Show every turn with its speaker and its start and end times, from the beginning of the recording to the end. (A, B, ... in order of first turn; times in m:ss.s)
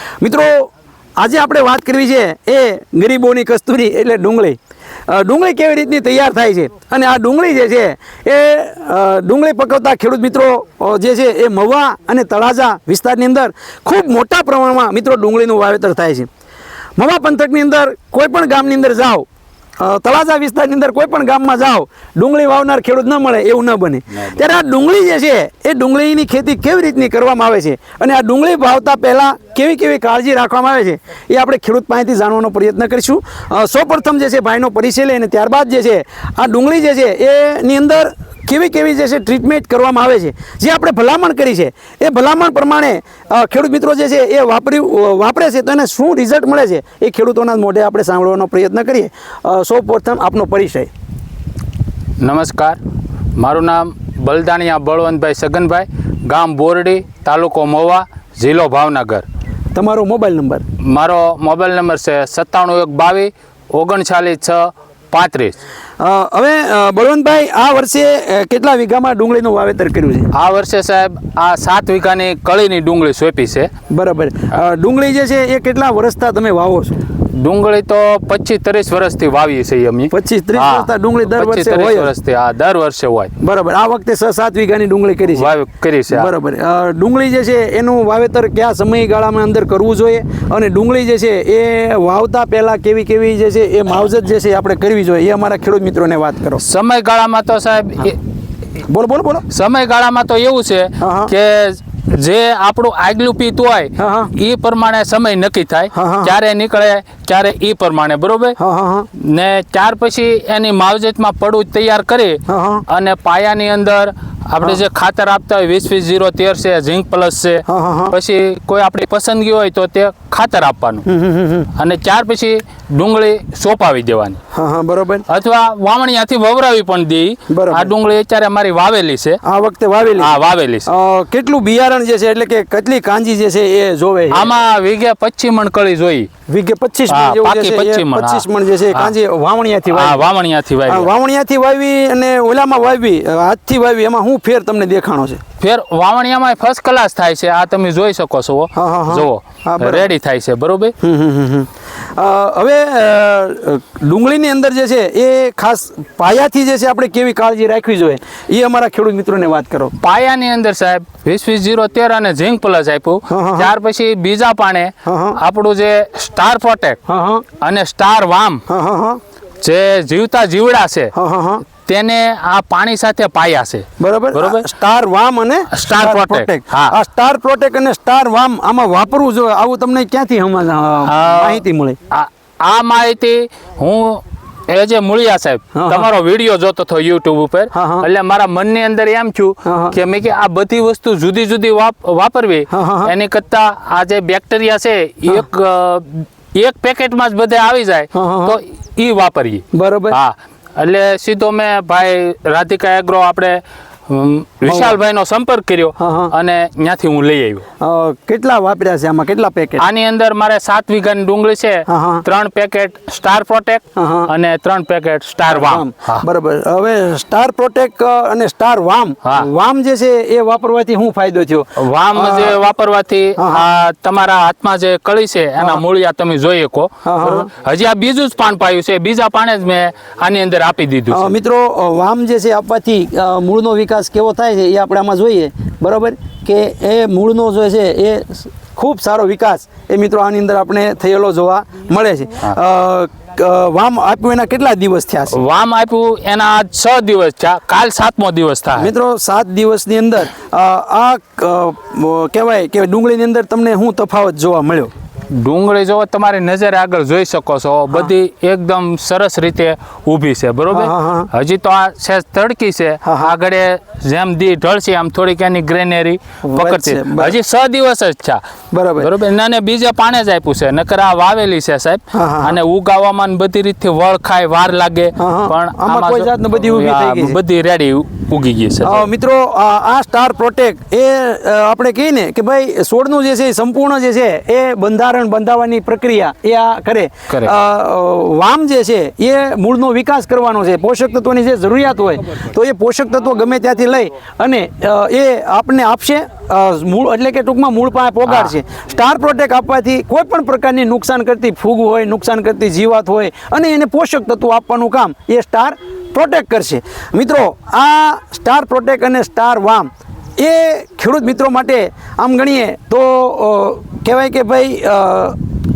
0:00.2-0:16.3 A
0:17.0-0:19.3 A
0:19.8-0:50.9 A
0:52.2-0:52.8 B
0:53.4-0:59.2 B
0:59.7-1:00.6 A
1:00.8-1:05.6 B
1:06.0-1:10.3 A
1:10.3-1:13.7 B
1:13.9-1:16.9 A
1:17.3-1:23.3 B
1:20.1-1:22.1 A
1:23.4-1:25.5 A
1:25.3-1:26.3 B
1:26.1-1:36.6 A
1:36.6-1:38.2 B
1:38.8-1:39.5 A
1:39.5-1:48.6 B
1:41.0-1:41.3 A
1:44.0-1:44.3 A
1:45.9-1:46.3 A
1:48.6-1:49.1 A
1:49.1-2:01.0 B
1:52.5-1:52.8 A
1:57.7-1:58.1 A
2:01.0-2:01.7 A
2:01.8-2:04.4 B
2:04.5-2:05.3 A
2:05.3-2:09.4 B
2:07.5-2:07.9 A
2:09.4-2:14.5 A
2:10.2-2:10.9 B
2:14.3-2:16.3 B
2:16.5-2:20.2 A
2:17.1-2:19.1 B
2:19.9-2:21.1 B
2:20.9-2:25.4 A
2:25.6-2:30.9 B
2:28.7-2:30.1 A
2:31.0-2:39.9 A
2:40.0-2:47.0 B
2:43.3-2:43.7 A
2:45.0-2:45.4 A
2:47.1-2:47.4 A
2:47.6-2:48.6 B
2:48.7-2:49.2 A
2:49.6-2:51.1 B
2:51.1-2:51.6 A
2:51.8-2:54.7 B
2:54.0-3:02.0 A
2:55.7-2:56.9 B
3:01.0-3:27.6 B
3:05.7-3:06.1 A
3:07.7-3:08.1 A
3:09.6-3:10.0 A
3:12.7-3:13.1 A
3:18.1-3:18.6 A
3:19.7-3:20.2 A
3:24.6-3:25.0 A
3:26.0-3:26.3 A
3:27.8-3:29.8 A
3:29.8-3:36.2 B
3:31.9-3:32.2 A
3:34.0-3:34.3 A
3:35.5-3:42.6 A
3:39.2-3:39.5 B
3:41.8-3:51.3 B
3:43.4-3:43.6 A
3:47.0-3:47.5 A
3:51.1-4:05.4 A
4:05.3-4:08.9 B
4:08.7-4:14.9 A
4:15.3-4:28.4 B
4:20.7-4:21.3 A
4:23.0-4:23.3 A
4:26.4-4:27.4 A
4:28.7-4:29.1 A
4:29.0-4:39.1 B
4:32.1-4:32.6 A
4:35.2-4:37.4 A
4:38.8-5:15.4 A
4:47.3-4:47.5 B
4:58.2-4:58.5 B